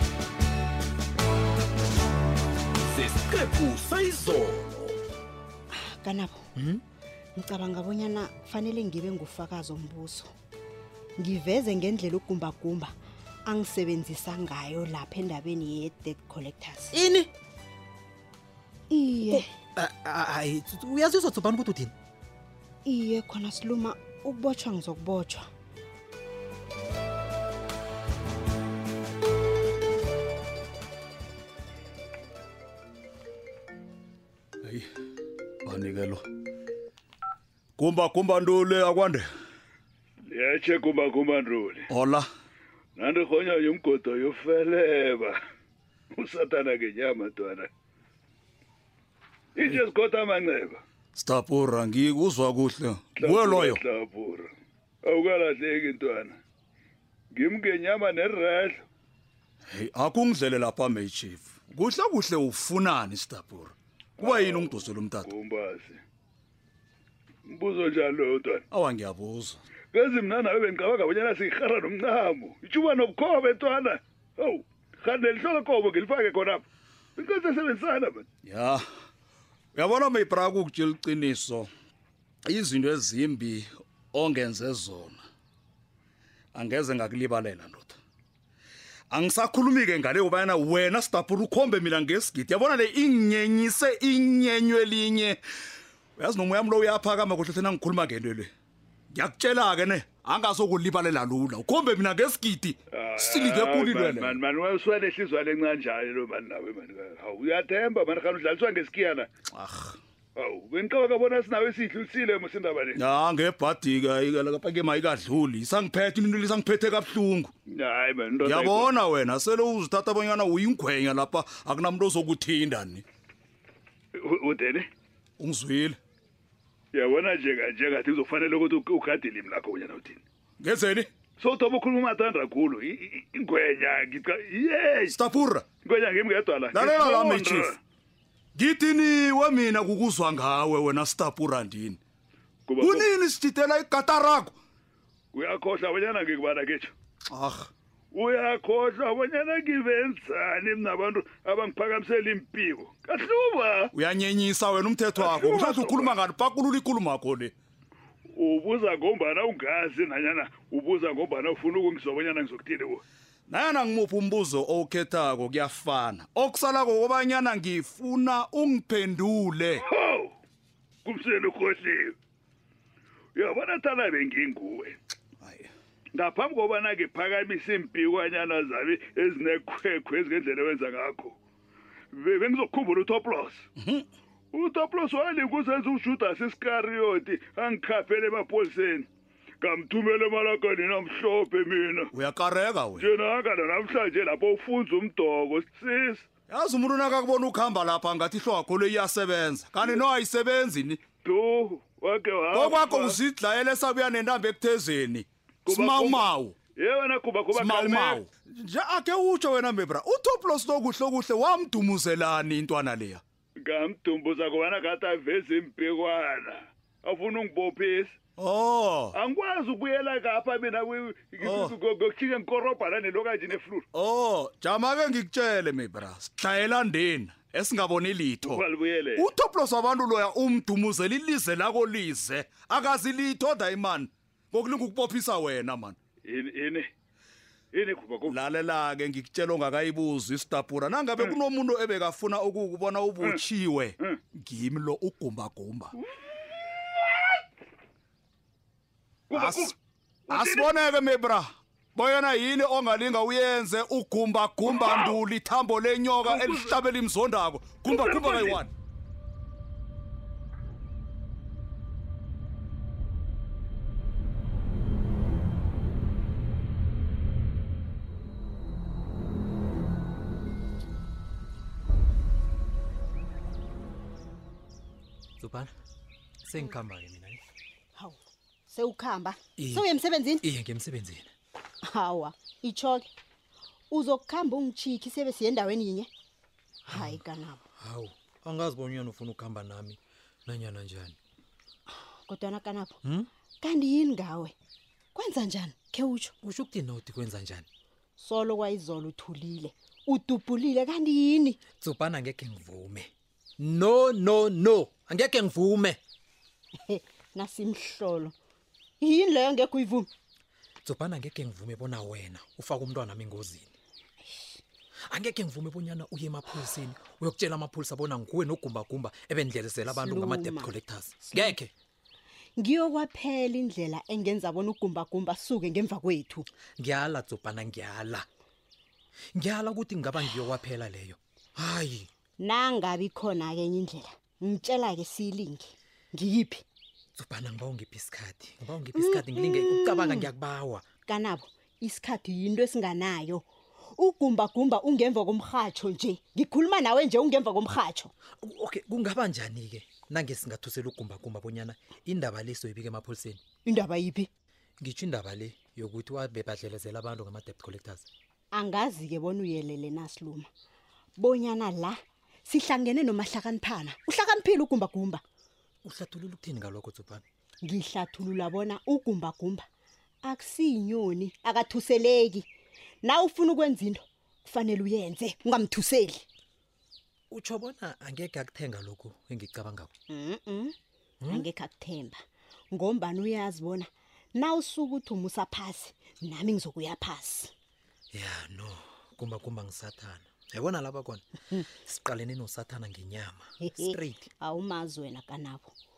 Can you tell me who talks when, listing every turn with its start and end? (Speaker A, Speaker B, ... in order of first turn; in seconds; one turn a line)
Speaker A: 2.9-5.0
Speaker B: 5.7-6.5
Speaker C: 6.5-6.8
Speaker B: 7.4-10.3
Speaker B: 11.2-12.9
Speaker B: 13.5-17.0
Speaker B: 18.9-19.4
Speaker C: 19.4-21.9
Speaker B: 22.8-25.5
Speaker D: 35.6-36.2
Speaker D: 37.8-39.2
Speaker E: 40.3-41.8
Speaker D: 41.9-42.2
Speaker E: 43.0-45.3
Speaker E: 46.1-47.7
Speaker E: 49.6-50.8
Speaker D: 51.1-53.8
Speaker E: 53.2-54.5
Speaker E: 55.0-56.4
Speaker E: 57.3-58.8
Speaker D: 59.7-65.3
Speaker E: 64.2-66.0
Speaker E: 67.5-68.6
Speaker D: 68.7-69.6
Speaker E: 69.9-76.6
Speaker E: 77.2-78.2
Speaker D: 78.4-78.8
Speaker D: 79.7-81.7
Speaker D: 82.5-85.2
Speaker D: 86.5-88.0
Speaker D: 89.1-95.4
Speaker D: 96.2-98.5
Speaker D: 99.1-104.4
Speaker E: 102.9-109.3
Speaker D: 109.5-110.0
Speaker E: 110.4-113.0
Speaker D: 113.0-117.5
Speaker E: 117.7-118.9
Speaker D: 118.4-123.0
Speaker E: 124.2-124.8
Speaker D: 125.4-126.0
Speaker E: 126.9-130.2
Speaker D: 130.6-131.1
Speaker E: 131.4-135.1
Speaker D: 135.1-135.7
Speaker E: 135.8-137.8
Speaker D: 136.7-137.7
Speaker D: 138.5-142.0
Speaker E: 142.7-143.1
Speaker D: 142.8-144.5
Speaker E: 145.3-146.9
Speaker D: 147.3-147.7
Speaker E: 148.1-153.9
Speaker D: 153.9-157.5
Speaker E: 155.2-156.2
Speaker E: 158.3-163.0
Speaker D: 163.5-169.8
Speaker E: 169.9-170.3
Speaker E: 171.1-172.1
Speaker E: 173.4-174.9
Speaker D: 175.4-175.7
Speaker E: 176.2-181.3
Speaker E: 182.2-183.6
Speaker D: 183.8-184.0
Speaker E: 184.5-189.1
Speaker E: 189.6-192.1
Speaker D: 192.1-193.1
Speaker E: 193.0-196.3
Speaker D: 196.5-201.0
Speaker E: 201.2-203.2
Speaker D: 202.5-206.6
Speaker E: 205.7-208.2
Speaker D: 207.6-213.2
Speaker E: 213.6-218.2
Speaker D: 218.4-219.2
Speaker E: 219.2-223.8
Speaker D: 221.4-221.8
Speaker D: 223.9-228.6
Speaker E: 228.5-229.3
Speaker D: 229.2-236.0
Speaker E: 236.3-236.9
Speaker E: 237.7-238.3
Speaker D: 238.3-245.9
Speaker E: 249.3-249.7
Speaker D: 249.3-249.7
Speaker E: 250.3-250.7
Speaker D: 250.3-258.7
Speaker E: 254.7-255.1
Speaker E: 256.3-256.7
Speaker E: 257.9-258.6
Speaker C: 275.4-275.7
Speaker C: 276.4-277.4
Speaker B: 278.7-280.4
Speaker C: 279.6-279.9
Speaker C: 280.4-281.3
Speaker B: 281.8-283.1
Speaker B: 283.9-286.1
Speaker C: 286.9-287.2
Speaker B: 286.9-287.6
Speaker C: 287.8-291.2
Speaker B: 292.1-293.0
Speaker C: 293.0-293.3
Speaker B: 293.6-294.5
Speaker B: 295.1-296.3
Speaker C: 296.4-297.7
Speaker B: 298.2-301.6
Speaker C: 301.8-306.0
Speaker B: 306.9-308.3
Speaker B: 309.0-310.1
Speaker C: 310.8-313.7
Speaker C: 315.1-321.7
Speaker B: 319.9-320.7
Speaker B: 321.2-321.6
Speaker B: 322.6-326.5
Speaker C: 326.8-328.3
Speaker C: 329.3-332.1
Speaker B: 332.4-336.6
Speaker C: 337.2-340.9
Speaker B: 338.9-340.3
Speaker B: 341.1-343.4
Speaker B: 344.0-348.1
Speaker C: 348.4-353.4
Speaker B: 353.6-354.3
Speaker C: 354.8-358.1
Speaker B: 358.5-360.5
Speaker B: 361.2-365.2
Speaker C: 365.8-367.2
Speaker B: 367.6-369.6
Speaker B: 370.2-372.5
Speaker B: 373.0-376.2
Speaker C: 377.3-379.9
Speaker B: 380.1-380.8
Speaker C: 381.2-381.5
Speaker B: 381.3-387.5
Speaker C: 388.1-394.3
Speaker B: 393.6-395.7